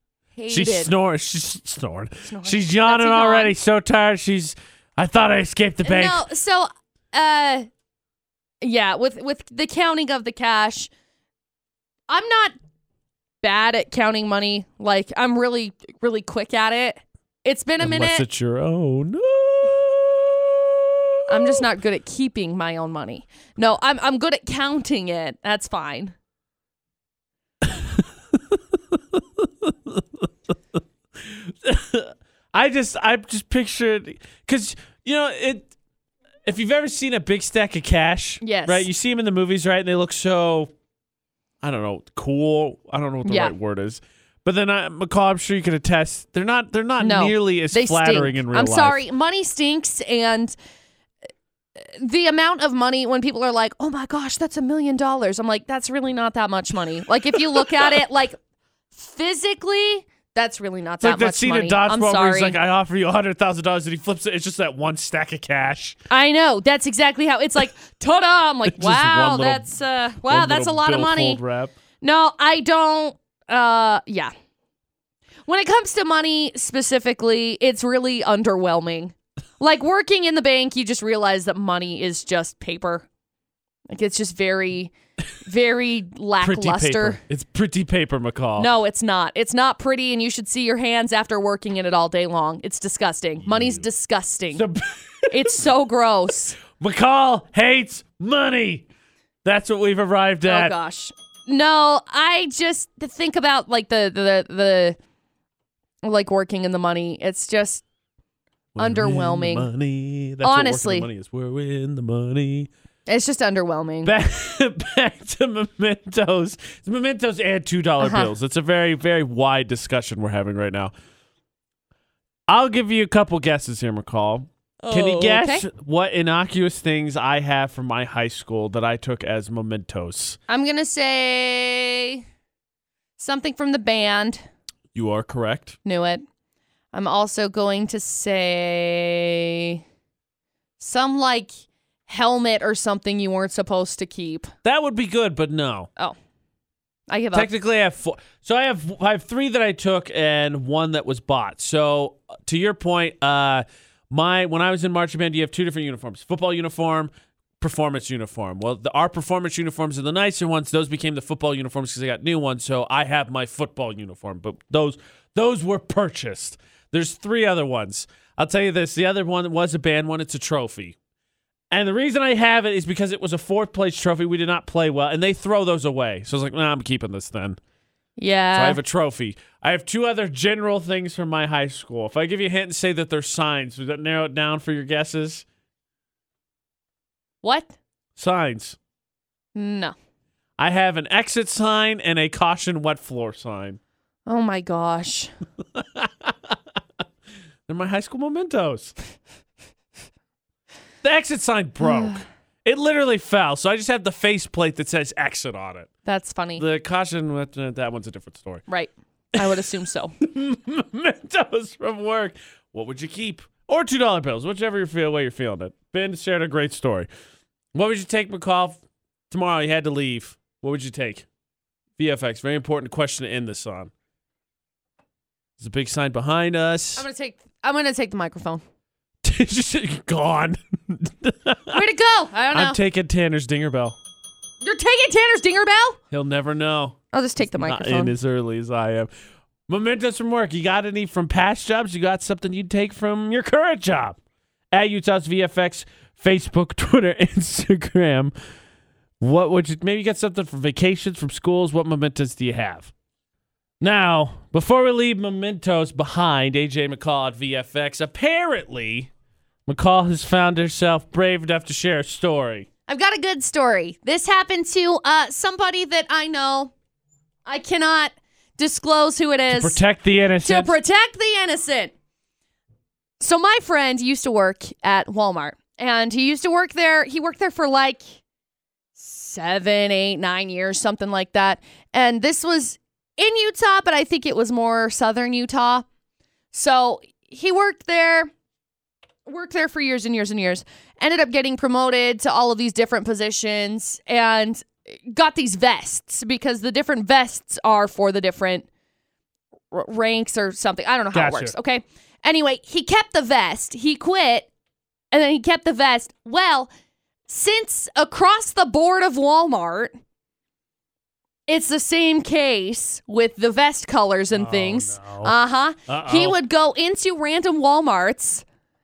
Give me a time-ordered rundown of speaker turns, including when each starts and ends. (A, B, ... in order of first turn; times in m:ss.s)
0:00.4-0:00.9 A
0:00.5-0:06.2 B
0:02.3-0:03.5 A
0:05.8-0:07.7 A
0:08.6-0:10.9 A
0:12.1-0:12.5 A
0:13.4-0:18.2 A
0:17.8-0:21.6 B
0:21.3-0:26.1 A
0:27.6-0:30.0 B
0:31.2-0:35.7 B
0:36.5-0:40.7 B
0:38.4-0:38.9 A
0:41.6-0:49.0 B
0:43.2-0:43.5 A
0:47.0-0:50.5 A
0:51.8-0:58.4 A
0:59.0-1:02.6 A
1:01.0-1:06.0 B
1:06.1-1:11.4 A
1:08.6-1:09.7 B
1:10.3-1:11.7 B
1:12.0-1:14.3 A
1:15.5-1:23.0 A
1:23.9-1:24.9 A
1:25.4-1:27.2 A
1:26.4-1:28.7 B
1:28.6-1:34.6 A
1:33.4-1:33.8 B
1:34.5-1:35.5 B
1:35.3-1:36.6 A
1:36.7-1:38.9 B
1:39.4-1:40.8 B
1:40.5-1:45.0 A
1:46.0-1:47.8 A
1:48.8-1:52.7 B
1:48.8-1:49.7 A
1:50.4-1:51.1 A
1:53.1-1:54.1 A
1:54.0-2:00.9 B
1:58.0-1:58.3 A
2:02.5-2:10.4 B
2:04.8-2:05.6 A
2:10.5-2:12.2 A
2:13.2-2:14.4 A
2:14.9-2:15.8 B
2:15.8-2:16.2 A
2:16.9-2:19.8 A
2:20.8-2:21.5 A
2:22.1-2:24.5 A
2:24.6-2:25.9 B
2:27.1-2:27.5 A
2:27.3-2:51.0 B
2:51.7-2:57.6 B
2:58.2-2:58.8 A
2:58.5-3:05.4 B
3:07.4-3:07.7 A
3:08.2-3:08.8 B
3:09.6-3:09.9 A
3:10.6-3:13.8 B
3:14.3-3:15.3 A
3:15.8-3:16.6 B
3:17.7-3:19.0 B
3:21.0-3:25.9 B
3:26.0-3:26.6 A
3:26.6-3:28.6 B
3:28.7-3:30.1 A
3:30.2-3:37.1 B
3:37.7-3:41.3 B
3:42.0-3:43.9 B
3:45.6-3:47.0 B
3:47.0-3:48.6 A
3:49.2-3:51.8 B
3:51.7-3:52.8 A
3:52.5-3:54.0 B
3:54.6-3:56.0 A
3:56.1-3:59.1 B
3:57.1-3:58.2 A
3:59.7-4:04.2 B
4:04.7-4:08.3 B
4:09.2-4:12.9 B
4:13.8-4:19.1 B
4:19.7-4:22.7 B
4:22.9-4:26.7 A
4:27.5-4:29.8 A
4:29.5-4:30.7 B
4:30.4-4:31.9 A
4:33.2-4:38.0 A
4:39.0-4:45.8 A
4:46.5-4:48.3 A
4:49.3-4:58.7 A
4:59.7-5:04.5 A
5:01.1-5:01.6 B
5:05.1-5:06.7 A
5:07.3-5:09.9 A
5:11.5-5:18.4 A
5:14.3-5:15.3 B
5:15.9-5:16.4 B